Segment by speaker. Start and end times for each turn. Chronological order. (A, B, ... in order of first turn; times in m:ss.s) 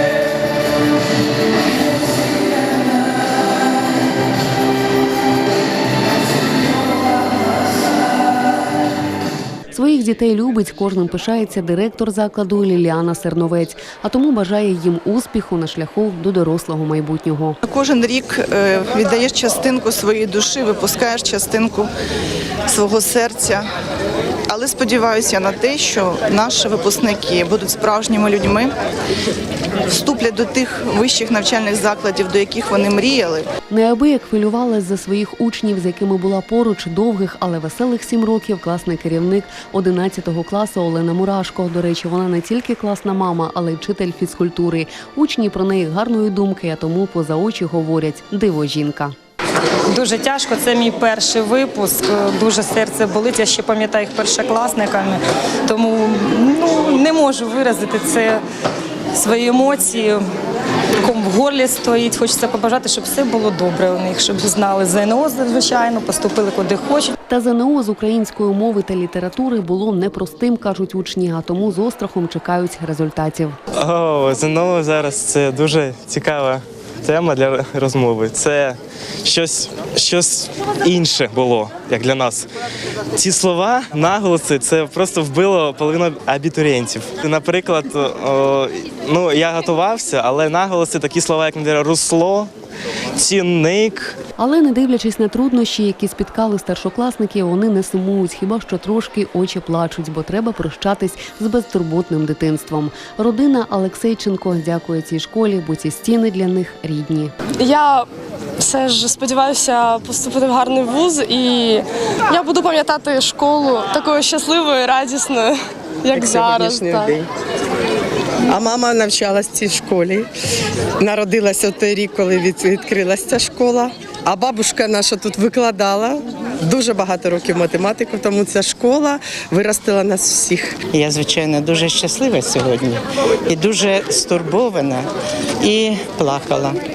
0:09.7-0:17.6 A
0:17.6-0:21.9 B
0:22.7-0:23.7 B
0:24.5-0:28.7 B
0:29.9-0:33.5 B
0:33.7-0:49.1 A
0:49.9-0:58.4 C
0:59.1-1:00.2 C
1:01.0-1:07.1 C
1:07.3-1:13.6 A
1:13.8-1:22.5 D
1:23.2-1:32.5 D
1:33.2-1:34.2 D
1:34.4-1:47.3 A
1:47.6-1:48.1 E
1:48.6-1:57.2 E
1:56.1-1:57.2 F
1:58.5-2:00.3 F
2:01.0-2:10.9 F
2:10.9-2:15.1 G
2:15.6-2:16.8 G